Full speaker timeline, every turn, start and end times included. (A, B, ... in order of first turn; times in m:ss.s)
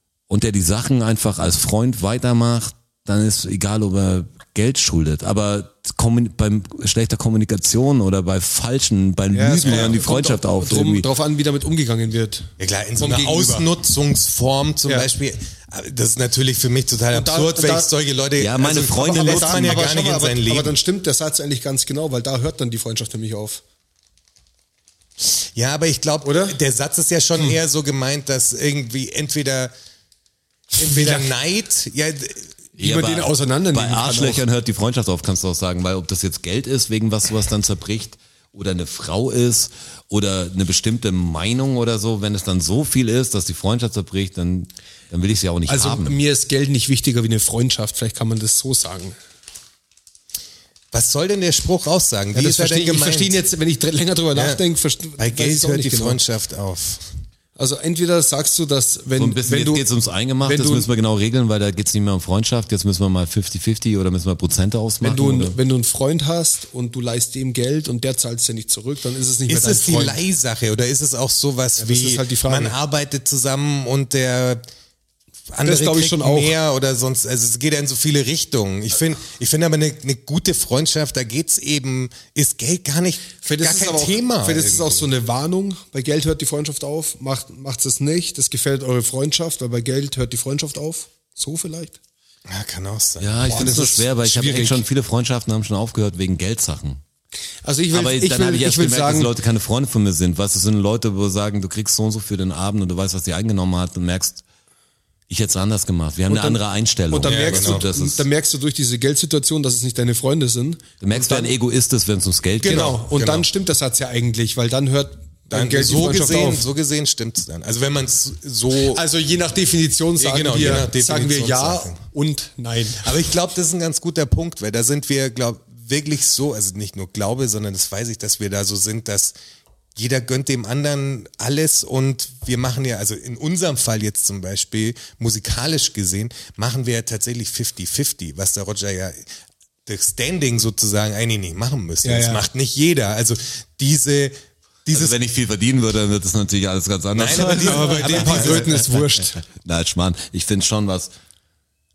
0:00.3-0:11.1 A
0:09.3-0:13.7 B
0:09.6-0:10.0 C
0:12.6-0:20.8 C
0:17.1-0:17.9 B
0:18.4-0:19.9 A
0:19.0-0:23.6 B
0:25.4-0:29.7 C
0:26.2-0:26.6 B
0:30.8-0:31.3 B
0:30.8-0:32.5 C
0:32.8-0:46.2 A
0:32.8-0:34.4 B
0:45.7-0:49.2 B
0:50.9-0:53.4 C
0:52.3-0:56.2 B
0:54.3-0:54.6 C
0:55.2-0:57.1 C
0:57.6-0:59.9 B
0:59.2-1:05.6 A
1:00.4-1:00.9 B
1:05.0-1:10.2 B
1:09.5-1:14.6 C
1:11.8-1:12.8 B
1:15.5-1:25.1 C
1:15.6-1:16.6 B
1:23.4-1:32.0 B
1:32.5-1:33.8 C
1:33.2-1:37.0 A
1:33.4-1:34.8 B
1:37.6-1:39.3 B
1:37.9-1:44.4 A
1:45.3-1:48.3 A
1:46.3-1:51.5 B
1:47.3-1:47.8 C
1:51.0-1:53.0 A
1:52.6-1:53.5 C
1:52.6-1:56.7 B
1:55.5-1:59.0 C
1:58.9-2:03.1 B
2:00.2-2:02.0 C
2:03.0-2:09.4 C
2:10.0-2:19.3 C
2:19.9-2:25.2 C
2:22.0-2:22.4 B
2:24.9-2:31.1 A
2:27.1-2:28.9 C
2:27.3-2:29.4 B